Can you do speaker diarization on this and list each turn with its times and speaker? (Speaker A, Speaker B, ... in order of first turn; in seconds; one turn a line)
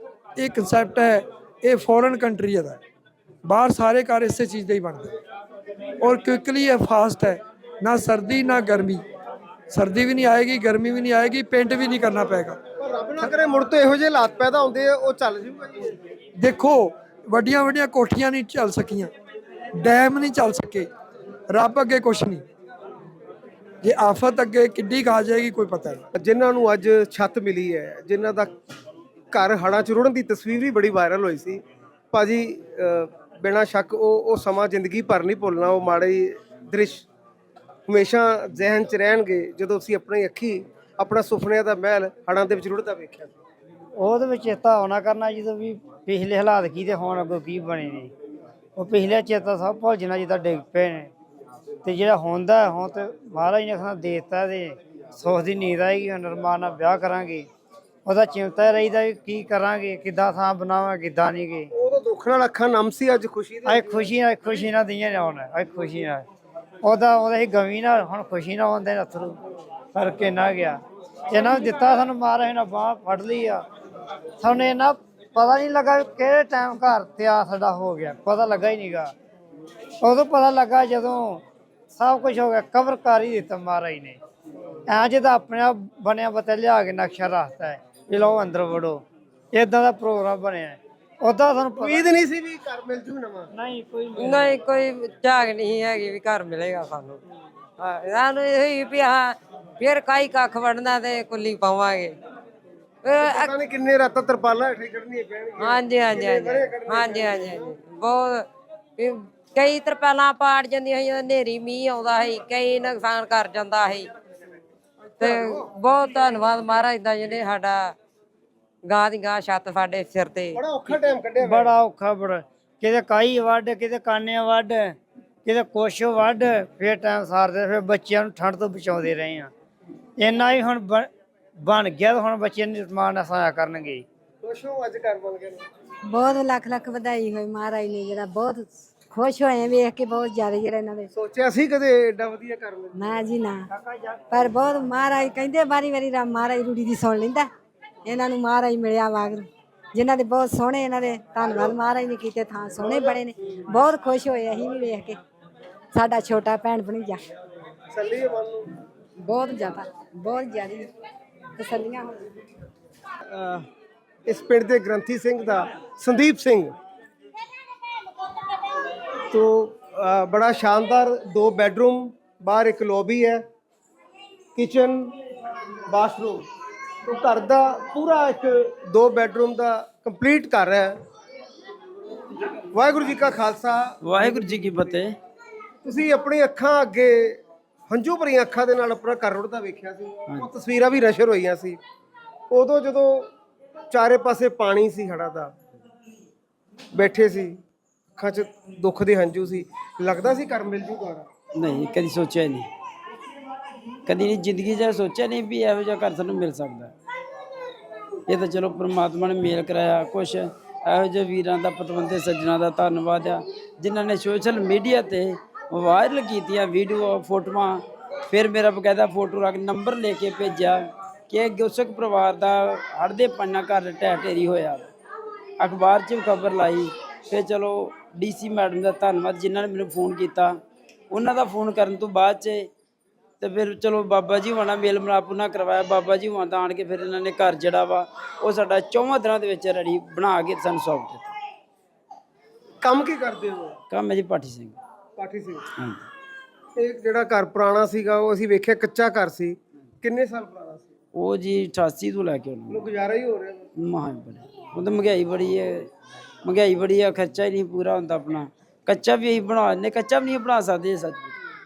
Speaker A: 0.4-2.8
Speaker A: 3.5-5.1
Speaker A: 6.0-9.0
Speaker A: 9.7-12.6
Speaker B: 12.8-15.9
Speaker A: 16.4-19.1
Speaker A: 19.8-20.9
Speaker A: 21.5-22.4
Speaker A: 23.8-26.0
Speaker B: 26.2-28.5
Speaker B: 29.3-37.1
Speaker B: 37.9-43.4
Speaker C: 44.0-48.1
Speaker C: 48.8-51.1
Speaker C: 51.8-57.5
Speaker C: 58.1-61.7
Speaker B: 61.7-63.9
Speaker C: 63.7-66.2
Speaker C: 66.8-69.4
Speaker C: 69.9-73.6
Speaker C: 74.4-79.1
Speaker C: 80.0-84.2
Speaker C: 84.9-89.0
Speaker C: 89.5-92.1
Speaker B: 91.8-93.5
Speaker C: 93.5-94.6
Speaker D: 94.2-97.2
Speaker D: 97.8-102.2
Speaker D: 103.0-103.5
Speaker B: 103.1-107.8
Speaker D: 105.6-108.5
Speaker D: 109.0-114.1
Speaker B: 115.0-115.7
Speaker D: 115.2-118.0
Speaker D: 118.8-120.6
Speaker B: 120.5-121.7
Speaker C: 121.4-129.5
Speaker C: 130.2-131.1
Speaker C: 131.6-134.0
Speaker B: 134.4-135.7
Speaker E: 136.1-141.1
Speaker B: 141.1-143.1
Speaker E: 143.0-143.7
Speaker C: 143.8-144.1
Speaker E: 144.3-147.5
Speaker E: 148.1-155.2
Speaker B: 152.8-153.2
Speaker E: 155.9-157.2
Speaker B: 157.9-158.7
Speaker E: 159.2-160.9
Speaker E: 161.6-162.3
Speaker B: 163.3-163.6
Speaker B: 164.3-166.7
Speaker B: 169.3-173.4
Speaker B: 174.6-175.1
Speaker B: 175.9-176.4
Speaker B: 177.0-181.0
Speaker B: 182.7-184.0
Speaker F: 184.0-185.2
Speaker B: 185.8-191.8
Speaker B: 192.5-193.3
Speaker B: 193.9-195.5
Speaker B: 196.9-197.6
Speaker B: 198.2-201.3
Speaker F: 201.6-202.7
Speaker F: 204.1-206.9
Speaker F: 208.3-224.9
Speaker F: 225.6-230.6
Speaker F: 231.1-232.7
Speaker F: 233.4-241.3
Speaker B: 242.8-243.8
Speaker F: 243.9-244.8
Speaker B: 245.2-245.7
Speaker F: 245.8-246.0
Speaker B: 246.8-250.9
Speaker F: 251.1-252.9
Speaker B: 252.7-253.7
Speaker F: 253.8-255.9
Speaker F: 256.4-261.3